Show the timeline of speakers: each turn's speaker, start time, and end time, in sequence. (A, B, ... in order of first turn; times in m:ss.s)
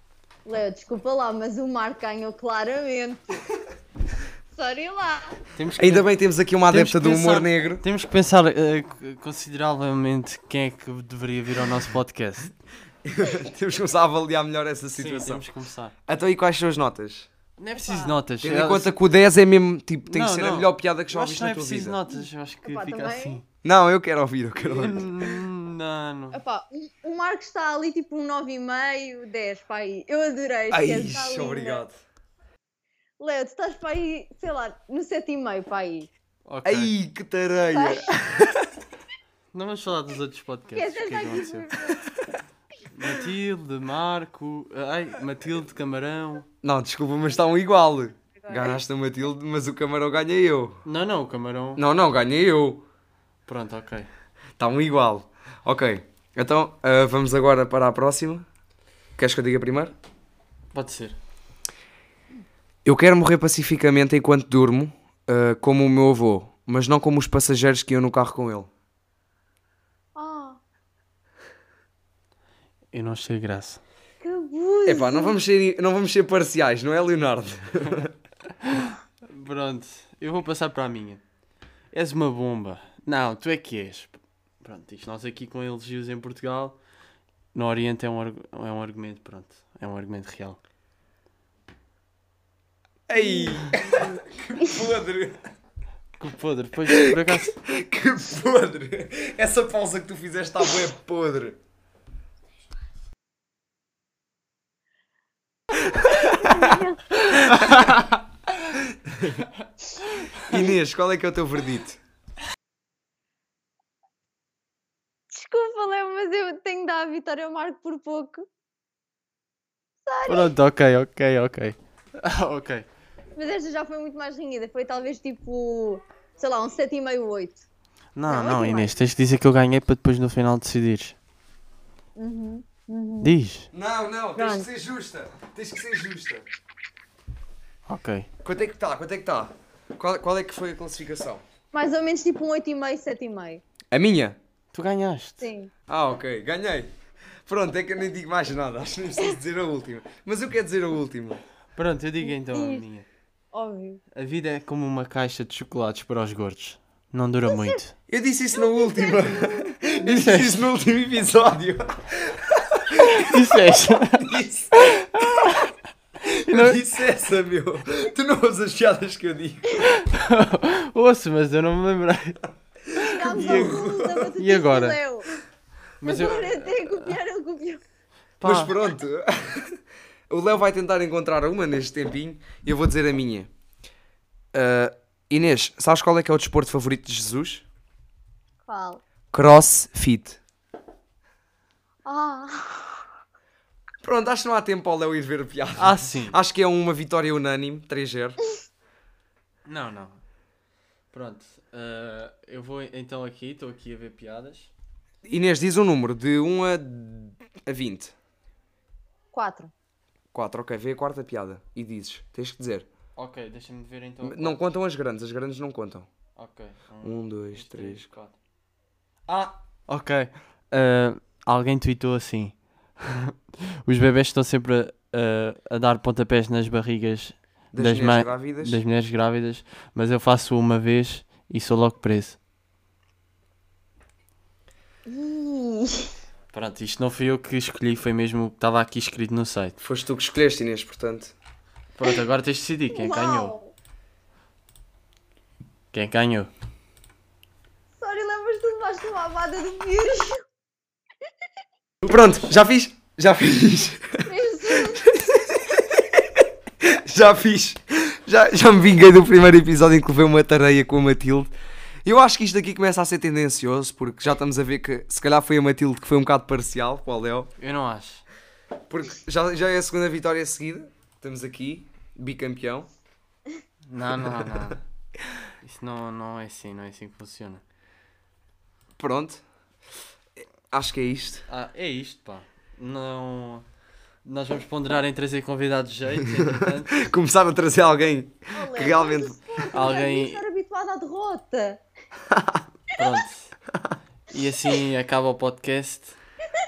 0:00.4-0:03.4 A
0:04.5-0:05.4 A
0:05.6-0:06.1 B
0:05.8-0:07.8 C
0:06.7-0:12.5 B
0:13.0-0:15.4 C
0:15.0-0:15.9 B
0:16.1-0:17.3 C
0:17.6-0:18.9 B
0:17.8-0:18.2 A
0:18.4-0:22.0 C
0:20.1-0:23.4 B
0:22.1-0:23.4 A
0:23.6-0:25.4 C
0:24.6-0:26.4 B
0:26.3-0:31.8 A
0:30.7-0:32.0 C
0:33.2-0:36.1 A
0:36.4-0:36.9 B
0:36.6-0:38.7 C
0:37.7-0:38.4 A
0:39.5-0:41.8 B
0:40.7-0:42.0 A
0:42.9-0:46.5 B
0:46.6-0:50.8 C
0:48.4-0:48.7 A
0:50.8-0:51.8 B
0:51.8-0:52.8 C
0:53.5-0:54.1 B
0:54.6-0:58.4 C
0:59.2-0:59.9 C
1:00.7-1:01.2 B
1:02.8-1:08.7 C
1:10.2-1:10.6 A
1:12.9-1:13.8 B
1:14.2-1:15.3 A
1:14.8-1:18.1 C
1:18.6-1:21.2 B
1:21.9-1:26.8 B
1:27.5-1:30.6 B
1:33.1-1:35.4 C
1:33.1-1:34.8 A
1:36.2-1:37.6 B
1:36.9-1:41.6 C
1:45.9-1:47.2 A
1:46.1-1:46.8 C
1:47.3-1:48.1 B
1:47.5-1:47.9 C
1:49.0-1:49.5 C
1:50.4-1:52.0 C
1:55.3-1:58.4 A
2:00.0-2:00.5 A
2:00.3-2:02.9 B
2:03.4-2:07.7 A
2:08.1-2:11.2 B
2:08.3-2:08.9 A
2:12.2-2:13.3 A
2:13.2-2:13.7 B
2:13.7-2:16.4 C
2:14.4-2:14.7 A
2:17.9-2:18.3 B
2:18.4-2:21.4 C
2:21.7-2:23.6 A
2:23.9-2:24.4 C
2:24.7-2:25.4 B
2:25.4-2:25.7 A
2:25.9-2:26.9 C
2:27.4-2:31.4 C
2:31.8-2:33.0 B
2:32.2-2:32.8 A
2:33.5-2:34.0 A
2:34.1-2:37.9 B
2:37.5-2:37.8 A
2:38.1-2:43.4 C
2:38.6-2:40.0 A
2:40.0-2:40.7 B
2:43.0-2:45.7 B
2:44.1-2:45.6 C
2:46.2-2:49.9 C
2:46.3-2:46.8 B
2:49.8-2:52.4 B
2:52.9-2:55.3 A
2:52.9-2:54.3 C
2:53.1-2:55.0 B
2:56.0-2:57.2 B
2:56.0-2:57.8 A
2:58.4-2:58.7 B
2:58.4-2:59.8 C
3:00.3-3:03.5 C
3:04.5-3:07.6 C
3:08.6-3:09.0 A
3:09.3-3:10.4 C
3:12.0-3:13.0 A
3:14.0-3:18.4 C
3:15.8-3:16.4 B
3:19.6-3:20.2 B
3:21.1-3:24.7 B
3:25.2-3:28.1 C
3:29.3-3:29.7 A
3:30.3-3:32.9 C
3:33.2-3:34.6 B
3:34.2-3:36.1 C
3:36.4-3:38.4 B
3:37.0-3:38.1 C
3:39.3-3:52.4 B
3:47.7-3:48.8 C
3:55.1-3:56.1 A
3:56.5-3:59.8 B
3:59.8-4:01.3 C
4:02.0-4:03.5 B
4:02.9-4:03.7 A
4:05.9-4:06.5 B
4:08.0-4:10.4 A
4:12.0-4:21.5 C
4:14.3-4:15.8 A
4:22.0-4:27.5 C
4:27.6-4:28.2 B
4:28.9-4:32.9 C
4:33.9-4:34.8 B
4:34.2-4:34.6 C
4:35.6-4:37.6 B
4:39.0-4:39.4 C
4:40.7-4:41.4 C
4:41.5-4:43.6 B
4:44.2-4:47.0 B
4:46.3-4:49.4 C
4:48.5-4:51.8 A
4:49.7-4:50.4 B
4:52.3-4:52.6 C
4:52.9-4:53.5 B
4:54.3-4:56.2 B